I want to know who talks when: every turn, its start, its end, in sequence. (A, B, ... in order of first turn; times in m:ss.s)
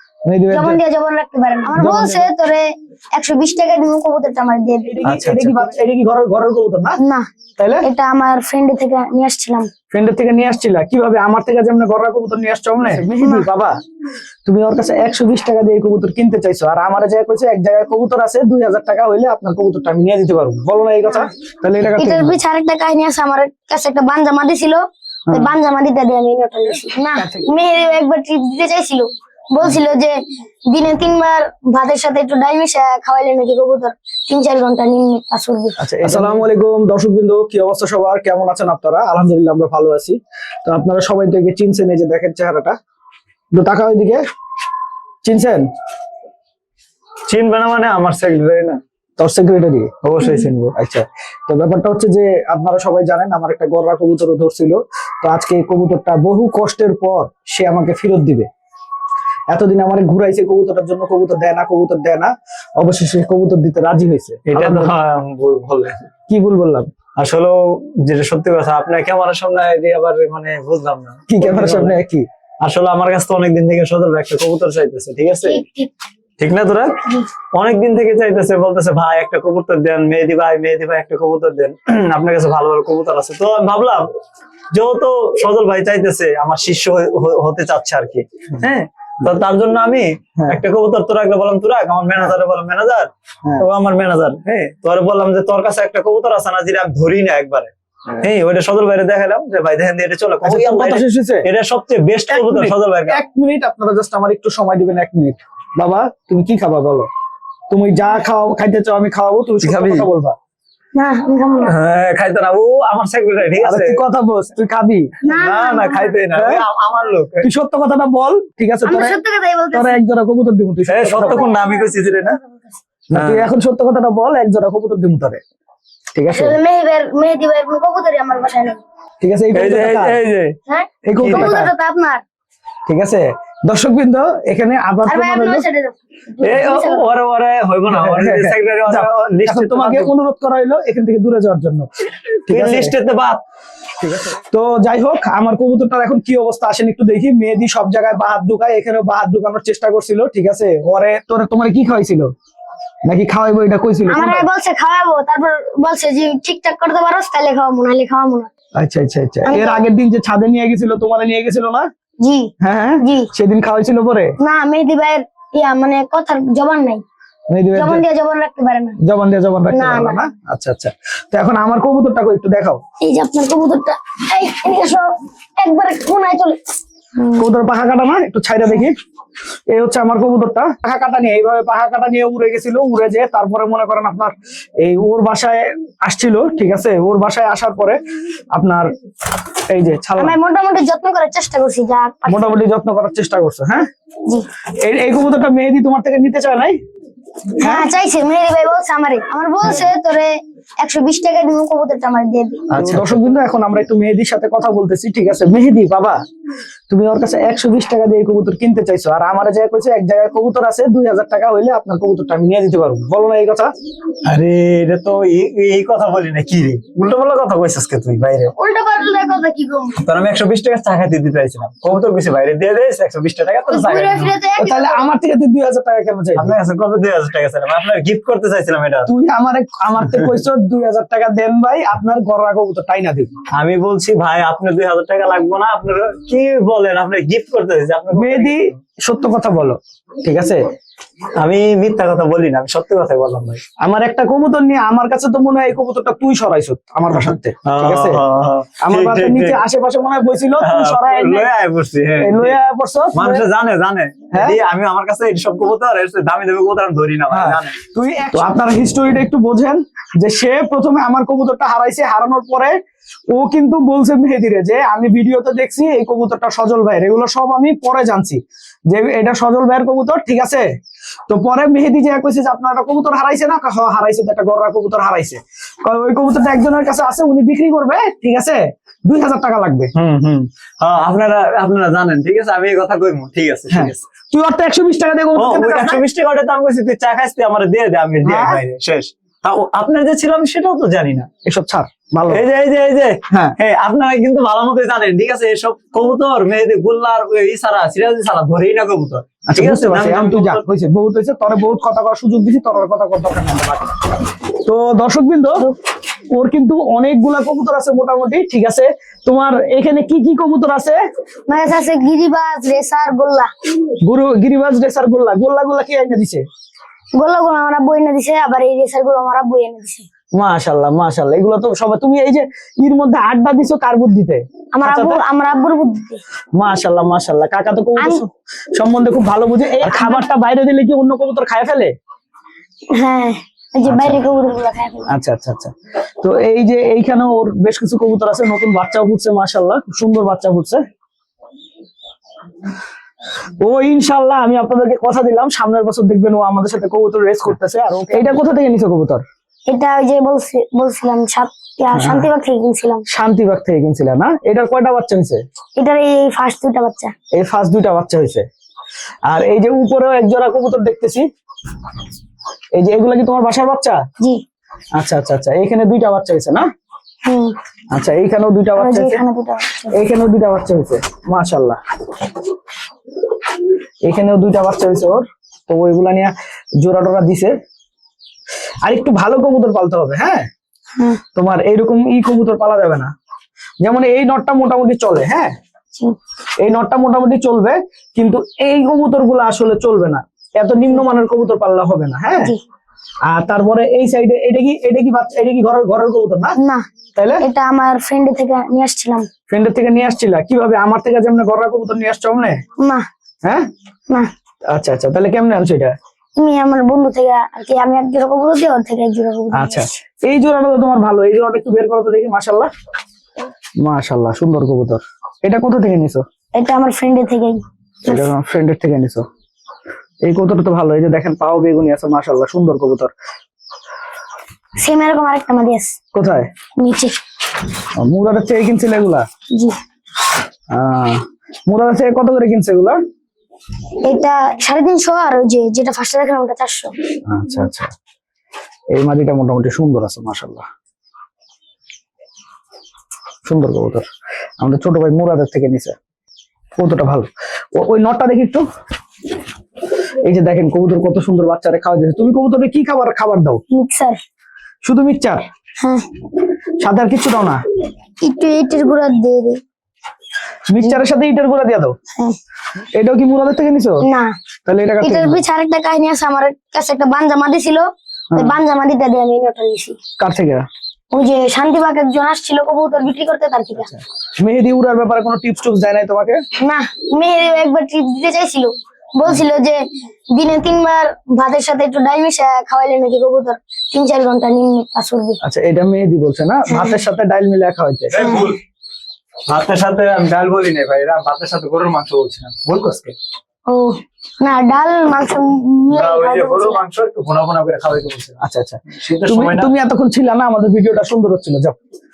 0:00.3-0:00.8 A
0:00.5-0:05.0 B
0:01.8-0:02.3 A
0:04.9-0:07.0 A
0:05.0-0:05.6 C
0:07.6-0:07.9 A
0:07.8-0:09.7 B
0:09.9-0:13.8 A
0:13.0-0:13.5 B
0:14.5-0:22.4 A
0:22.0-0:30.2 B
0:25.3-0:25.5 A
0:27.1-0:27.5 A
0:30.7-0:36.4 B
0:35.8-0:42.8 A
0:43.5-0:44.2 A
0:45.2-0:45.6 A
0:47.3-0:48.8 C
0:49.2-0:50.0 A
0:50.0-0:50.7 C
0:50.6-0:58.5 A
0:59.5-1:04.9 A
1:04.5-1:06.1 C
1:06.3-1:06.9 A
1:07.2-1:12.0 C
1:11.3-1:12.2 A
1:12.6-1:15.6 C
1:15.4-1:15.9 B
1:16.4-1:17.0 C
1:17.5-1:24.1 C
1:24.7-1:43.2 C
1:40.4-1:41.5 A
1:42.3-1:47.1 A
1:47.7-1:50.4 A
1:49.6-1:50.1 C
1:51.0-1:51.7 B
1:51.6-1:54.0 C
1:53.6-1:55.1 A
1:55.2-1:56.2 B
1:55.3-1:57.5 C
1:56.4-1:56.6 A
1:57.4-1:59.2 A
1:58.9-2:00.0 B
1:59.7-2:01.4 A
2:00.9-2:02.4 C
2:01.2-2:02.2 B
2:03.1-2:05.4 A
2:03.2-2:03.5 C
2:06.2-2:06.6 A
2:06.3-2:08.8 B
2:09.2-2:10.2 A
2:09.6-2:10.6 C
2:10.7-2:12.2 B
2:11.0-2:11.7 A
2:11.2-2:11.6 C
2:12.9-2:15.6 A
2:15.0-2:17.1 B
2:16.4-2:20.1 C
2:17.9-2:21.9 A
2:22.5-2:23.0 A
2:22.5-2:23.4 C
2:24.0-2:32.3 A
2:33.1-2:34.5 A
2:34.1-2:38.5 B
2:38.8-2:41.9 A
2:39.5-2:39.8 B
2:42.2-2:43.3 B
2:42.6-2:44.4 A
2:44.4-2:47.0 B
2:47.5-2:48.0 A
2:47.8-2:49.0 B
2:49.0-2:52.8 A
2:49.7-2:50.2 B
2:53.0-2:56.6 B
2:57.2-2:57.5 B
2:57.4-2:59.0 A
2:59.7-3:08.0 A
3:08.5-3:08.9 A
3:09.7-3:10.4 A
3:10.2-3:12.6 B
3:12.3-3:13.9 A
3:14.8-3:16.8 A
3:17.6-3:22.7 B
3:17.6-3:17.9 A
3:22.7-3:23.2 C
3:22.7-3:26.2 A
3:26.9-3:33.7 A
3:34.2-3:38.5 C
3:38.6-3:40.1 B
3:40.0-3:44.4 C
3:43.7-3:45.1 B
3:44.6-3:46.6 A
3:46.4-3:49.1 C
3:49.1-3:53.3 A
3:53.5-3:58.7 C
3:58.1-4:00.6 A
4:01.4-4:03.6 C
4:03.8-4:08.2 A
4:07.1-4:09.6 C
4:08.8-4:11.5 A
4:10.6-4:12.6 C
4:12.2-4:13.5 A
4:13.1-4:17.8 C
4:14.3-4:14.6 A
4:17.3-4:22.8 A
4:23.3-4:30.7 A
4:31.3-4:39.9 A
4:40.0-4:44.0 C
4:43.7-4:46.0 A
4:45.4-4:51.3 C
4:48.2-4:48.6 A
4:51.4-4:52.4 A
4:52.3-5:00.6 C
4:53.3-4:53.6 A
4:59.5-5:03.9 A
5:04.6-5:05.7 A
5:06.3-5:11.0 A
5:11.5-5:13.5 B
5:14.0-5:16.4 A
5:17.2-5:20.1 B
5:20.3-5:25.2 A
5:24.7-5:26.2 B
5:26.6-5:31.9 A
5:29.7-5:30.3 B
5:32.9-5:35.1 B
5:33.9-5:34.2 A
5:35.1-5:40.8 A
5:43.6-5:49.2 A
5:49.7-5:53.0 B
5:51.9-5:52.3 A
5:53.1-5:55.4 A
5:55.8-5:57.1 B
5:57.3-5:58.5 A
5:59.3-6:01.3 A
6:02.8-6:04.0 A
6:05.0-6:06.7 A
6:07.3-6:07.6 B
6:07.9-6:09.2 A
6:08.8-6:10.0 B
6:09.9-6:11.8 A
6:14.0-6:17.6 A
6:18.8-6:20.5 A
6:21.0-6:21.2 B
6:21.4-6:23.1 A
6:23.8-6:25.5 A
6:26.6-6:32.5 A
6:33.3-6:36.6 A
6:36.6-6:36.9 B
6:37.2-6:37.4 A
6:37.4-6:39.3 B
6:39.5-6:42.6 A
6:42.8-6:43.1 B
6:44.7-6:46.0 A
6:46.4-6:49.9 B
6:49.5-6:52.7 A
6:53.8-6:56.2 A
6:56.5-6:58.3 B
6:58.1-6:59.2 A
7:00.2-7:03.1 A
7:04.8-7:06.0 B
7:06.1-7:06.5 A
7:06.8-7:07.2 B
7:08.0-7:09.3 A
7:10.7-7:13.0 A
7:14.0-7:16.9 B
7:17.3-7:17.9 A
7:18.9-7:20.6 A
7:23.4-7:24.0 A
7:24.6-7:26.0 A
7:26.8-7:28.6 A
7:30.2-7:33.6 A
7:33.7-7:34.2 B
7:34.8-7:35.5 A
7:35.8-7:36.1 B
7:36.8-7:37.6 A
7:38.2-7:39.6 B
7:40.7-7:42.0 A
7:43.0-7:44.0 A
7:44.1-7:44.4 B
7:44.7-7:45.4 A
7:45.0-7:50.0 B
7:50.2-7:50.7 A
7:51.1-7:53.9 B
7:54.4-7:56.4 A
7:56.6-8:05.4 B
8:05.4-8:08.2 A
8:06.7-8:07.0 B
8:08.1-8:08.6 C
8:08.2-8:08.5 B
8:09.5-8:13.1 C
8:13.7-8:16.8 B
8:15.9-8:19.7 C
8:18.4-8:21.8 A